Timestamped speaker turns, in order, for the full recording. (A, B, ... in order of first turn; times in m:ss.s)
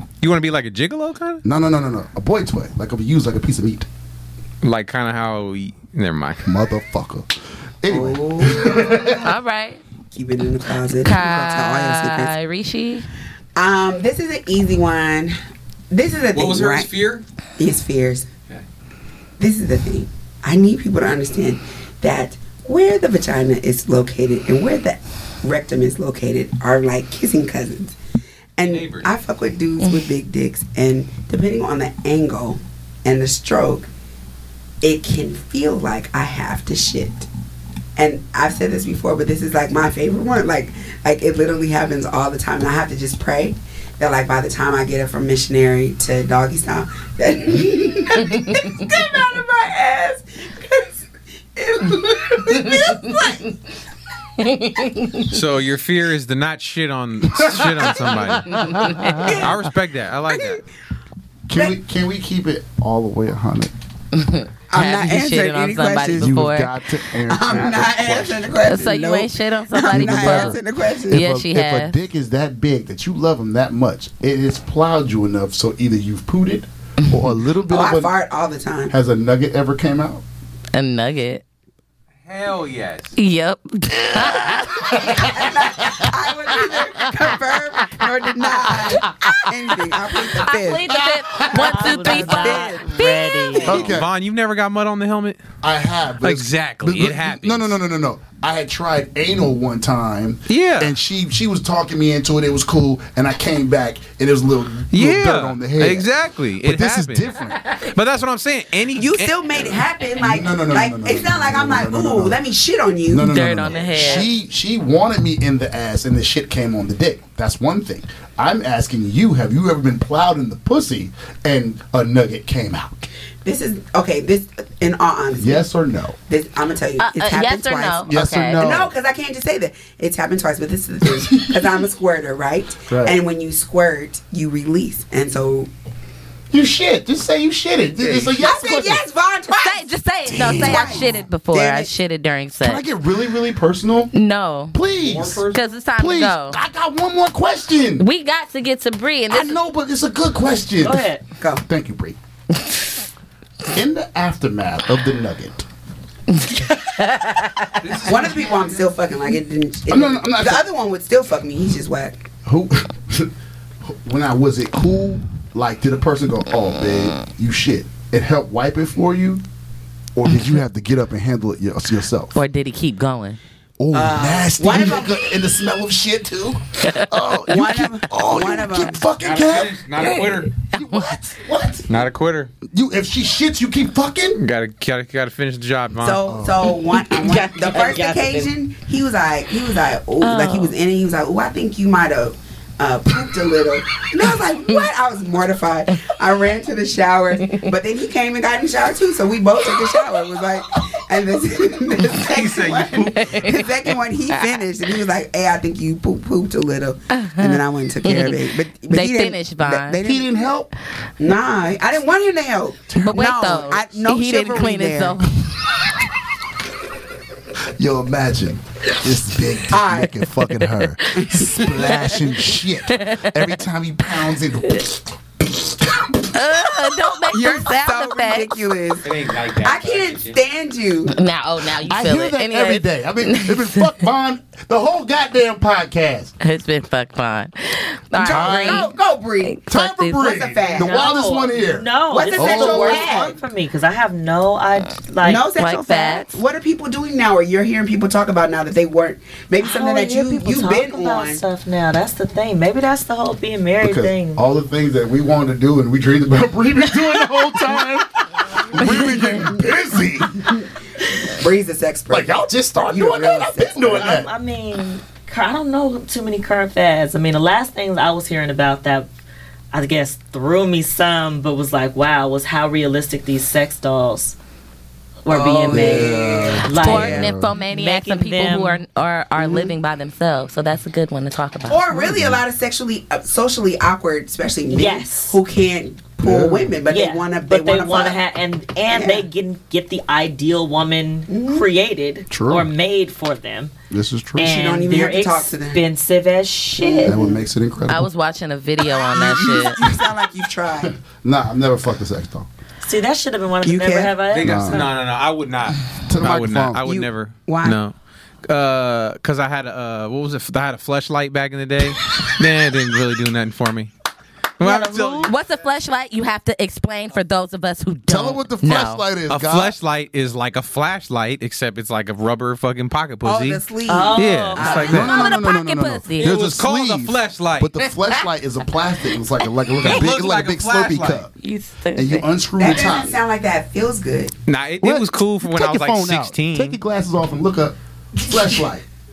0:00.2-0:01.4 A
0:01.4-0:03.9 B
0:04.6-0:06.5 A
0:06.4-0:07.3 B
0:07.8-0:09.3 B
0:07.9-0:09.2 C
0:09.2-0:09.8 D
0:10.1-0:12.4 C
0:10.9-0:13.1 D
0:13.6-0:15.4 C
0:15.9-0:16.9 C
0:16.3-0:17.2 A
0:17.6-0:18.3 C
0:19.4-0:28.0 C
0:28.6-0:33.9 C
0:28.6-0:29.1 A
0:34.8-0:37.3 C
0:38.0-0:51.0 C
0:51.6-0:53.5 C
0:54.4-0:55.4 D
0:55.3-1:00.6 A
0:57.3-0:59.5 B
0:58.7-0:59.3 D
0:59.2-0:59.6 C
1:00.3-1:00.6 C
1:01.5-1:03.7 B
1:04.1-1:06.8 D
1:04.7-1:06.5 C
1:06.1-1:08.8 B
1:07.2-1:11.2 C
1:07.5-1:07.8 A
1:08.6-1:12.0 D
1:09.9-1:18.1 B
1:17.7-1:18.9 C
1:18.9-1:20.2 B
1:20.7-1:21.4 D
1:22.2-1:23.2 A
1:23.2-1:25.1 D
1:23.9-1:29.1 B
1:25.0-1:33.9 C
1:30.4-1:33.7 D
1:30.9-1:31.9 B
1:31.5-1:33.8 E
1:33.7-1:34.1 B
1:33.7-1:35.4 A
1:35.6-1:46.1 B
1:36.2-1:37.7 A
1:40.5-1:40.9 A
1:44.9-1:49.8 A
1:46.6-1:47.6 B
1:47.6-1:47.9 D
1:48.9-1:54.2 C
1:50.2-1:52.4 B
1:53.1-2:03.1 B
1:53.2-1:54.3 D
2:03.4-2:05.6 C
2:05.4-2:06.2 B
2:06.3-2:15.7 C
2:07.0-2:08.8 D
2:08.1-2:08.9 B
2:11.3-2:11.6 B
2:12.9-2:13.2 B
2:16.5-2:19.0 B
2:18.0-2:21.9 C
2:19.6-2:22.8 D
2:20.5-2:21.0 B
2:22.6-2:24.1 B
2:24.1-2:24.8 D
2:24.7-2:25.4 B
2:24.9-2:25.6 A
2:25.5-2:26.6 D
2:26.0-2:28.0 B
2:28.0-2:29.6 D
2:29.3-2:31.1 B
2:30.8-2:31.2 E
2:31.6-2:32.2 B
2:33.7-2:35.6 B
2:36.3-2:37.9 D
2:37.8-2:38.6 A
2:38.0-2:42.2 C
2:39.9-2:40.6 B
2:42.4-2:43.3 B
2:43.8-2:49.4 B
2:50.2-2:52.4 B
2:52.3-2:53.4 D
2:53.8-3:01.9 B
2:53.9-2:55.2 C
2:56.8-2:57.2 D
2:57.5-2:59.0 C
2:59.2-3:00.6 A
3:00.0-3:01.1 D
3:01.9-3:02.5 A
3:02.6-3:04.4 B
3:04.4-3:06.3 A
3:06.0-3:30.5 C
3:06.3-3:06.8 B
3:07.2-3:08.5 E
3:10.2-3:10.7 D
3:22.2-3:23.5 A
3:23.0-3:24.6 D
3:27.1-3:30.0 D
3:30.0-3:30.7 B
3:31.2-3:35.3 C
3:32.9-3:33.3 B
3:33.0-3:35.4 D
3:37.8-3:46.0 B
3:39.7-3:40.2 C
3:40.5-3:40.8 D
3:41.1-3:42.4 C
3:41.8-3:43.5 D
3:46.3-3:48.7 D
3:47.3-3:51.2 C
3:49.0-3:50.4 A
3:51.1-3:53.9 D
3:51.8-3:56.3 B
3:56.4-3:58.9 D
3:58.2-3:59.6 C
3:58.3-3:58.9 B
3:59.4-4:00.3 D
3:59.7-4:03.4 B
4:00.2-4:01.2 C
4:00.8-4:05.5 E
4:02.1-4:03.4 C
4:05.2-4:11.4 C
4:05.6-4:06.4 D
4:09.6-4:14.4 E
4:13.8-4:20.5 B
4:21.0-4:22.3 C
4:22.1-4:24.3 B
4:22.8-4:24.1 C
4:23.9-4:29.1 E
4:29.7-4:34.4 E
4:35.2-4:38.8 E
4:35.3-4:37.2 C
4:35.7-4:37.6 B
4:36.7-4:41.9 D
4:39.4-4:39.7 C
4:41.7-4:48.2 C
4:41.9-4:42.4 B
4:44.7-4:45.4 E
4:46.2-4:46.7 B
4:46.9-4:53.7 E
4:48.9-4:49.3 C
4:51.3-4:51.6 C
4:52.3-4:52.7 B
4:53.9-4:54.6 B
4:54.4-4:57.2 E
4:54.4-4:55.8 C
4:56.8-4:57.4 C
4:57.0-4:58.1 B
4:57.9-4:59.8 D
4:59.1-5:00.9 C
4:59.2-5:00.1 B
5:00.8-5:02.5 B
5:02.8-5:04.9 E
5:03.6-5:04.8 C
5:04.3-5:13.9 A
5:04.4-5:04.9 B
5:06.1-5:06.8 B
5:06.8-5:07.8 C
5:14.6-5:15.4 A
5:14.6-5:15.3 E
5:15.2-5:19.0 D
5:18.1-5:19.7 B
5:19.3-5:25.2 A
5:23.2-5:25.2 C
5:23.9-5:25.0 E
5:24.8-5:31.3 B
5:24.9-5:26.3 D
5:26.2-5:27.8 A
5:29.8-5:31.3 A
5:31.4-5:32.3 D
5:32.0-5:33.2 B
5:32.6-5:34.3 C
5:34.4-5:36.8 A
5:34.8-5:38.8 B